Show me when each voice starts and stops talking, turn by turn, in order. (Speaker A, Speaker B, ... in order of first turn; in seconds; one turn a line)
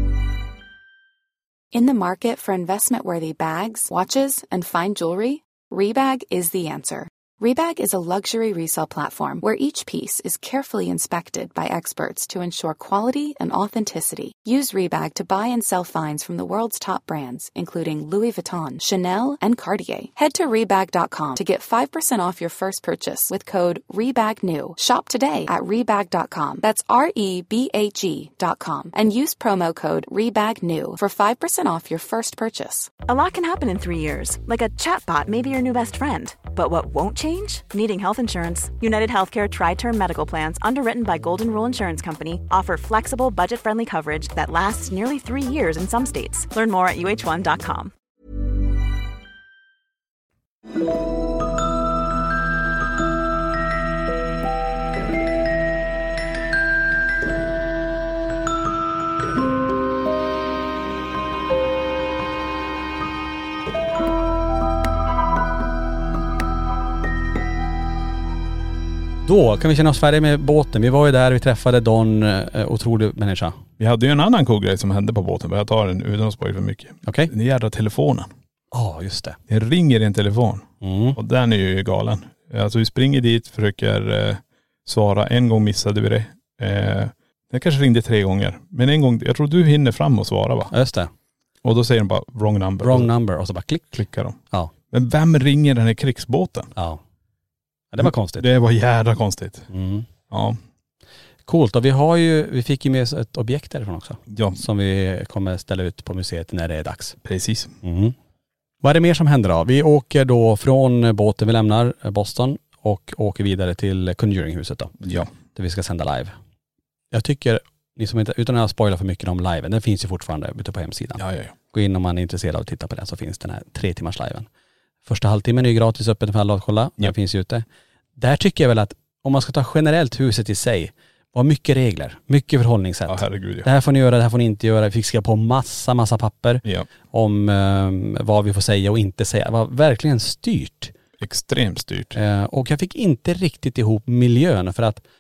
Speaker A: 1.7-32.9
Speaker B: 33.0-47.9
Speaker C: 69.3-73.6
Speaker D: 73.8-78.3
Speaker C: 77.1-77.3
Speaker C: 78.7-79.4
Speaker D: 79.5-90.7
Speaker C: 80.8-81.2
Speaker C: 90.7-91.1
Speaker D: 91.6-93.1
Speaker C: 92.8-93.9
Speaker D: 93.9-94.4
Speaker D: 94.9-96.7
Speaker C: 96.8-97.0
Speaker C: 97.9-98.5
Speaker D: 98.0-99.7
Speaker C: 99.7-100.1
Speaker D: 100.3-100.6
Speaker C: 101.5-107.2
Speaker D: 104.3-104.6
Speaker D: 107.2-107.8
Speaker C: 107.8-108.2
Speaker C: 108.8-114.9
Speaker D: 115.0-115.3
Speaker C: 115.5-116.3
Speaker C: 117.1-124.5
Speaker D: 121.2-121.5
Speaker C: 125.1-127.7
Speaker C: 128.2-140.9
Speaker D: 133.1-133.7
Speaker D: 141.2-142.2
Speaker C: 142.2-145.0